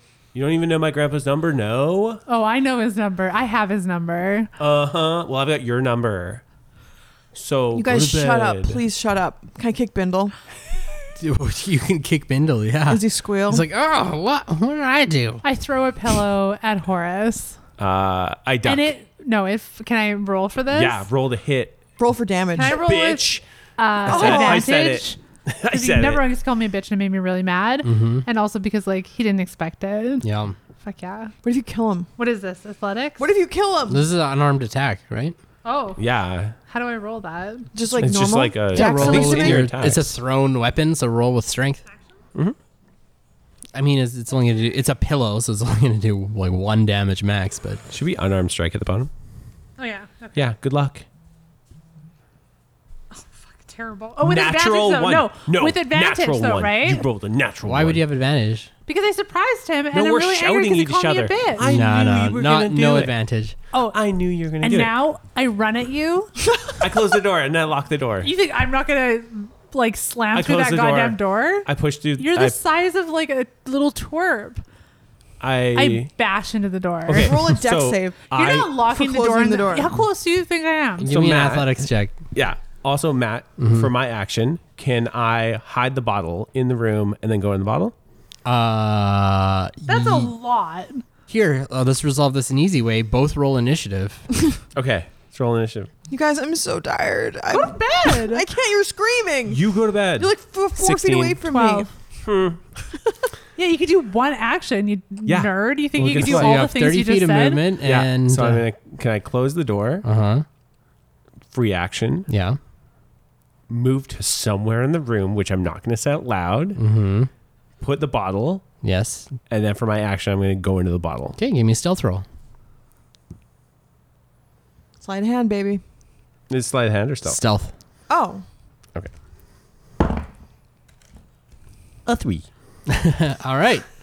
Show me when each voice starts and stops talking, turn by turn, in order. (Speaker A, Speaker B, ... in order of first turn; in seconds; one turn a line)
Speaker A: 0.3-2.2
Speaker B: 2.3-4.5
Speaker A: 4.6-6.4
Speaker A: 7.3-8.8
Speaker C: 7.7-10.3
Speaker D: 11.2-15.4
Speaker C: 12.9-13.6
Speaker B: 15.4-17.6
Speaker A: 17.8-18.9
Speaker B: 18.6-21.1
Speaker A: 20.7-21.8
Speaker C: 22.0-22.8
Speaker B: 22.5-30.3
Speaker A: 22.6-23.4
Speaker A: 24.0-26.2
Speaker C: 24.1-24.7
Speaker D: 27.8-28.2
Speaker D: 30.2-30.6
Speaker B: 30.8-31.3
Speaker C: 31.4-32.1
Speaker B: 32.2-33.2
Speaker C: 33.2-34.0
Speaker D: 33.9-35.4
Speaker B: 35.6-36.0
Speaker A: 36.0-36.5
Speaker B: 36.7-37.7
Speaker C: 37.7-39.7
Speaker A: 38.0-40.1
Speaker D: 38.7-41.8
Speaker D: 43.7-47.8
Speaker A: 47.9-49.1
Speaker B: 49.8-50.4
Speaker A: 50.4-51.0
Speaker B: 53.1-57.0
Speaker A: 54.2-58.0
Speaker D: 57.6-58.7
Speaker B: 58.9-61.7
Speaker A: 59.9-63.1
Speaker D: 61.6-63.5
Speaker B: 63.7-64.0
Speaker A: 63.9-64.9
Speaker B: 64.6-66.3
Speaker A: 66.8-68.3
Speaker B: 68.2-74.6
Speaker A: 70.3-72.6
Speaker A: 75.4-76.1
Speaker B: 75.7-77.4
Speaker A: 77.1-78.7
Speaker C: 77.2-80.0
Speaker B: 78.3-81.1
Speaker D: 81.0-82.2
Speaker A: 81.1-87.9
Speaker D: 83.6-83.9
Speaker D: 88.4-90.3
Speaker B: 89.9-91.0
Speaker D: 91.3-94.2
Speaker A: 94.7-95.9
Speaker C: 96.1-99.6
Speaker B: 97.5-98.4
Speaker A: 99.5-101.4
Speaker C: 100.2-101.9
Speaker B: 101.4-101.9
Speaker A: 102.2-102.6
Speaker B: 103.5-107.6
Speaker A: 105.2-106.6
Speaker D: 106.1-108.6
Speaker A: 107.8-110.0
Speaker D: 110.0-110.5
Speaker A: 111.5-112.3
Speaker D: 112.3-112.6
Speaker A: 113.7-116.8
Speaker D: 116.8-117.3
Speaker A: 117.8-118.7
Speaker D: 118.8-119.3
Speaker A: 119.5-121.3
Speaker D: 121.4-122.2
Speaker C: 125.0-125.8
Speaker A: 126.5-127.4
Speaker D: 127.2-127.7
Speaker C: 128.1-128.4
Speaker A: 132.1-132.5
Speaker D: 132.9-133.8